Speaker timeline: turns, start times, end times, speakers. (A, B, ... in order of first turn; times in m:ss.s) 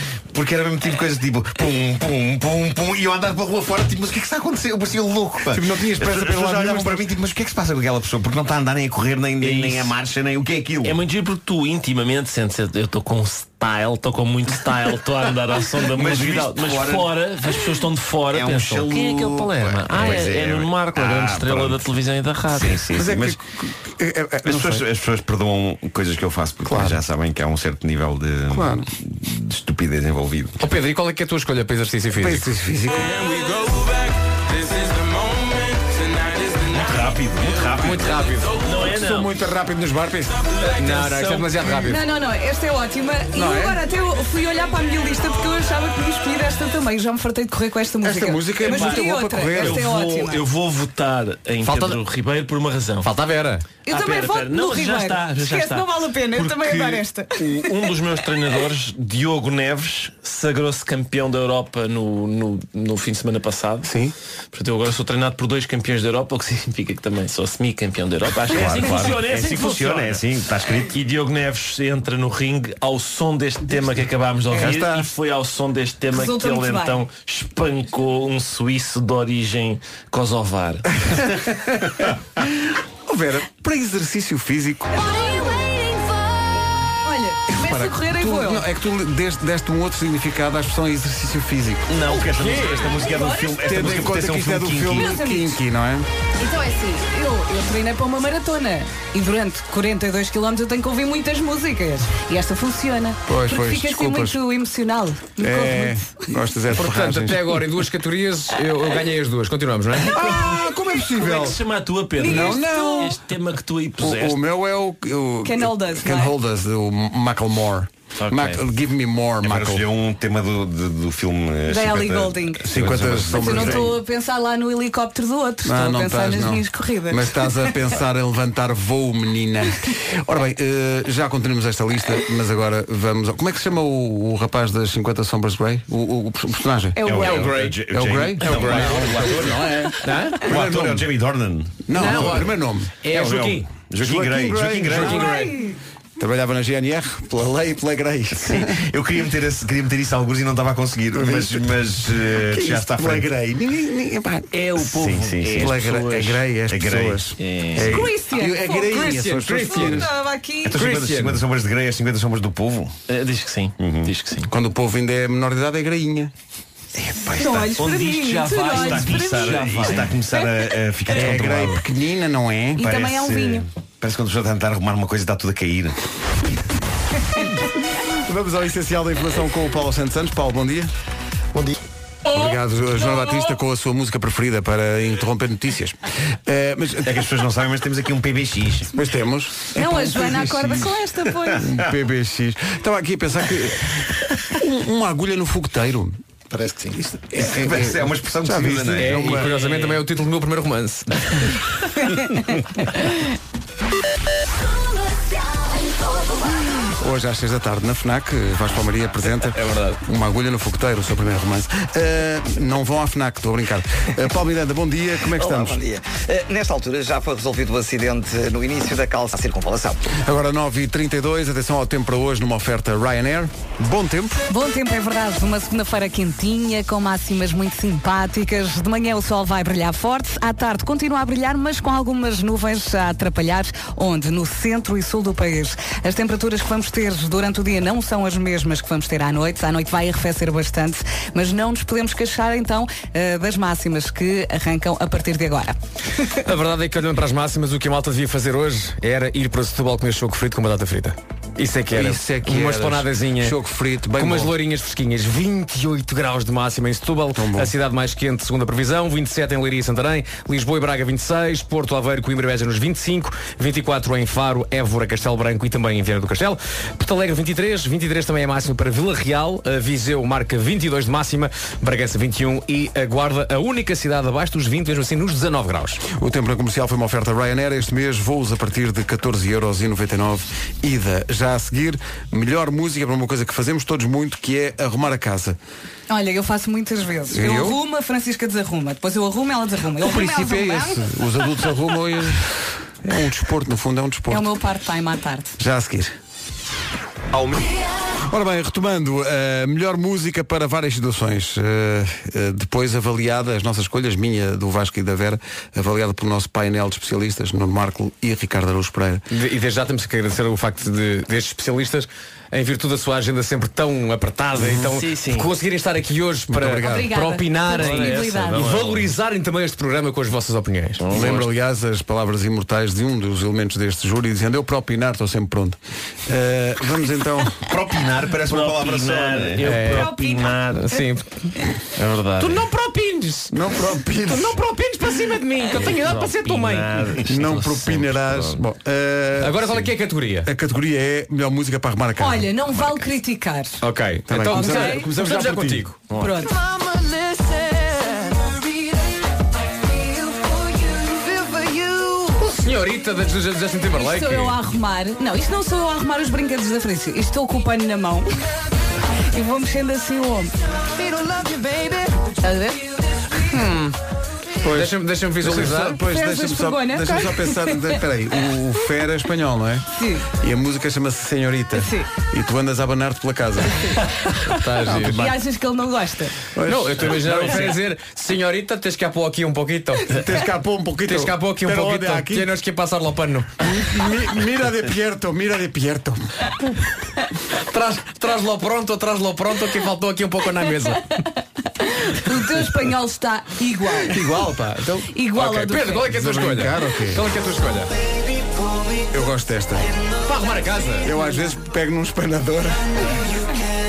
0:00.3-0:11.0 A
0:05.5-0:07.2 B
0:09.4-0:10.0 C
0:10.8-0:22.9 C
0:15.9-0:17.1 A
0:18.3-0:21.9 A
0:22.5-0:23.4 A
0:22.9-0:24.8 B
0:24.4-0:30.6 A
0:26.6-0:27.0 B
0:28.5-0:28.9 B
0:30.6-0:32.4 D
0:32.2-0:33.6 B
0:36.6-0:38.3 A
0:37.8-0:38.6 D
0:38.6-0:39.3 C
0:38.8-0:40.5 B
0:40.6-0:41.7 C
0:40.8-0:42.0 D
0:41.9-0:50.4 E
0:43.3-0:43.8 B
0:48.0-0:49.8 B
0:48.6-0:53.1 C
0:51.6-0:52.0 D
0:53.0-0:53.7 D
0:53.9-0:57.9 E
0:53.9-1:03.9 C
1:03.8-1:04.1 B
1:04.5-1:21.2 C
1:08.5-1:10.9 A
1:14.5-1:15.1 B
1:16.1-1:17.0 E
1:21.1-1:22.4 B
1:23.1-1:24.9 B
1:24.9-1:26.2 E
1:27.0-1:28.6 E
1:27.5-1:31.9 B
1:31.9-1:35.2 A
1:32.3-1:33.0 D
1:32.8-1:33.6 E
1:33.5-1:36.1 B
1:34.9-1:35.6 E
1:36.4-1:46.3 E
1:43.3-1:44.4 B
1:45.4-1:47.7 B
1:46.7-1:50.2 D
1:50.1-1:51.6 B
1:50.1-1:54.4 C
1:52.2-1:53.2 B
1:52.2-1:53.1 E
1:54.0-1:59.9 B
1:55.4-1:56.3 E
1:58.2-1:58.6 C
1:59.4-2:04.0 A
2:01.7-2:02.7 E
2:02.6-2:04.0 B
2:03.3-2:07.3 E
2:05.6-2:21.1 B
2:17.0-2:17.4 E
2:17.0-2:19.9 A
2:17.1-2:17.8 D
2:18.4-2:20.9 D
2:20.4-2:22.5 A
2:21.9-2:23.0 B
2:21.9-2:23.7 D
2:23.1-2:25.4 A
2:24.0-2:25.5 B
2:24.9-2:25.5 D
2:25.0-2:25.8 E
2:26.2-2:28.8 B
2:28.3-2:33.3 A
2:31.1-2:34.5 B
2:34.5-2:36.4 C
2:34.9-2:35.7 A
2:35.5-2:40.1 B
2:36.7-2:37.2 A
2:37.4-2:37.9 C
2:37.8-2:39.0 E
2:38.7-2:40.1 D
2:39.7-2:40.8 E
2:40.6-2:43.0 A
2:40.7-2:41.4 D
2:43.1-2:44.5 C
2:43.8-2:44.1 A
2:44.5-2:46.3 B
2:47.0-2:47.9 A
2:47.2-2:50.7 E
2:47.7-2:50.2 C
2:48.7-2:51.8 A
2:51.1-2:52.9 B
2:52.8-2:53.6 E
2:52.8-2:56.0 A
2:58.0-3:00.9 B
3:02.2-3:07.2 B
3:07.0-3:08.9 A
3:08.9-3:16.2 B
3:09.7-3:11.7 E
3:17.1-3:19.6 B
3:17.3-3:19.4 A
3:19.0-3:21.6 D
3:26.9-3:35.8 B
3:29.5-3:30.0 D
3:35.3-3:40.0 F
3:40.2-3:44.4 B
3:44.5-4:06.3 E
4:06.4-4:13.6 D
4:11.9-4:14.5 B
4:14.1-4:36.0 D
4:17.3-4:17.7 B
4:36.0-4:45.6 B
4:46.1-4:51.0 E
4:47.3-4:47.8 B
4:50.0-4:54.5 B
4:54.3-4:55.6 E
4:55.6-4:56.1 B
4:58.2-5:09.2 B
5:09.3-5:21.4 D
5:14.6-5:15.5 C
5:16.5-5:17.1 B
5:16.8-5:18.7 E
5:17.7-5:19.1 C
5:21.0-5:21.4 C
5:21.1-5:27.6 B
5:27.6-5:29.8 A
5:28.4-5:30.9 C
5:29.6-5:31.4 D
5:29.9-5:30.6 E
5:32.0-5:32.7 C
5:32.4-5:33.6 D
5:33.5-5:34.6 B
5:34.3-5:37.1 D
5:35.7-5:38.6 C
5:37.2-5:39.9 B
5:39.4-5:40.5 D
5:40.4-5:42.5 B
5:42.2-5:43.8 E
5:43.8-5:46.0 D
5:44.3-5:45.9 B
5:44.5-5:45.1 E
5:46.1-5:46.4 C
5:46.2-5:46.6 E
5:50.7-5:52.3 E
5:52.5-5:54.6 D
5:54.0-5:58.3 E
5:59.3-6:03.8 E
6:03.5-6:04.0 D
6:04.6-6:14.0 B
6:04.7-6:06.0 D
6:06.0-6:08.0 E
6:09.9-6:10.3 E
6:11.7-6:12.1 E
6:14.4-6:15.3 D
6:14.8-6:15.3 B
6:15.1-6:16.4 E
6:16.6-6:17.7 B
6:16.6-6:20.2 D
6:20.1-6:22.5 B
6:21.0-6:23.5 D
6:23.6-6:26.5 B
6:27.6-6:31.2 D
6:31.8-6:34.3 E
6:34.0-6:35.1 B
6:35.1-6:36.1 E
6:35.3-6:37.9 D
6:36.1-6:37.2 B
6:39.1-6:39.9 B
6:40.2-6:41.1 D
6:41.0-6:43.0 B